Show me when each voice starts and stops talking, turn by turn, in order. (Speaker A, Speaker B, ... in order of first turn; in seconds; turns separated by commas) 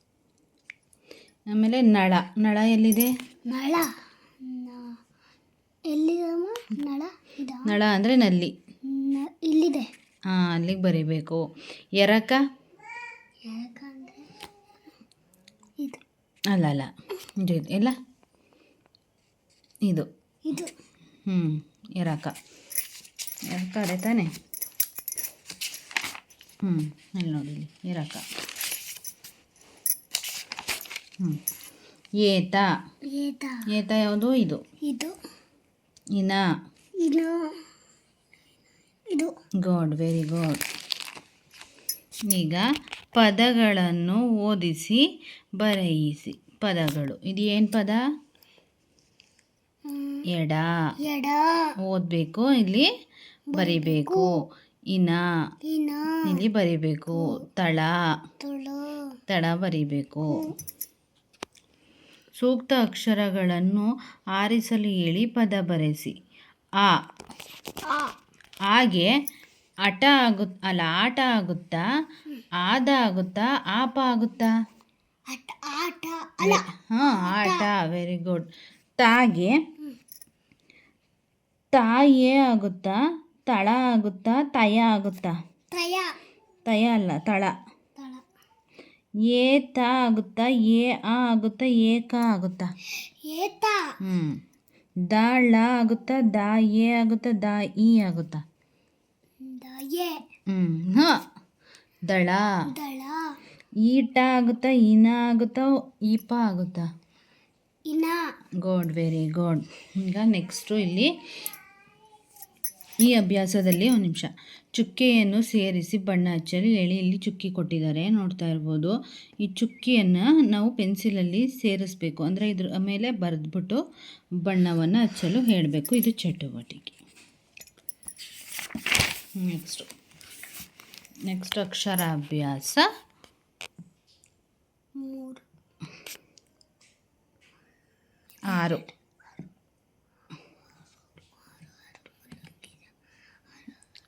Speaker A: 1.5-3.1, Speaker B: 3.5-3.9, Speaker B: 4.4-4.9, Speaker B: 5.9-7.7, Speaker A: 7.6-8.5, Speaker B: 8.8-9.9, Speaker A: 10.3-11.4, Speaker A: 12.0-12.4, Speaker B: 13.4-14.3, Speaker A: 16.5-16.9, Speaker A: 17.4-17.9, Speaker A: 21.3-22.3, Speaker A: 23.5-24.3, Speaker A: 26.6-28.2, Speaker A: 32.2-32.7, Speaker B: 33.1-33.6, Speaker A: 33.7-34.6, Speaker B: 34.8-35.1, Speaker A: 36.2-36.4, Speaker B: 37.0-37.5, Speaker A: 39.6-40.6, Speaker A: 42.3-45.0, Speaker A: 45.6-48.0, Speaker B: 49.9-50.2, Speaker A: 50.3-50.7, Speaker B: 51.0-51.7, Speaker A: 51.9-52.9, Speaker B: 53.5-54.3, Speaker A: 53.5-54.3, Speaker A: 54.9-55.2, Speaker B: 55.6-56.4, Speaker A: 56.2-58.0, Speaker B: 57.1-57.4, Speaker B: 58.4-59.1, Speaker A: 59.3-60.5, Speaker A: 62.3-66.1, Speaker B: 67.8-68.1, Speaker A: 68.7-69.1, Speaker A: 69.8-71.8, Speaker A: 72.6-74.5, Speaker B: 75.3-77.7, Speaker A: 76.4-78.5, Speaker A: 79.0-79.5, Speaker A: 81.7-85.3, Speaker B: 85.7-86.2, Speaker A: 86.7-87.5, Speaker B: 88.0-88.2, Speaker A: 89.2-92.7, Speaker B: 93.2-93.9, Speaker A: 94.0-94.4, Speaker A: 95.1-98.4, Speaker B: 99.4-100.2, Speaker A: 100.5-101.2, Speaker A: 102.1-102.4, Speaker B: 102.7-103.4, Speaker A: 103.8-106.9, Speaker B: 107.9-108.2, Speaker A: 108.6-111.1, Speaker A: 113.0-123.8, Speaker A: 124.4-127.0, Speaker A: 129.4-129.9, Speaker A: 131.3-132.9, Speaker B: 135.0-135.4, Speaker A: 138.5-138.9, Speaker B: 138.5-138.8, Speaker B: 142.3-142.7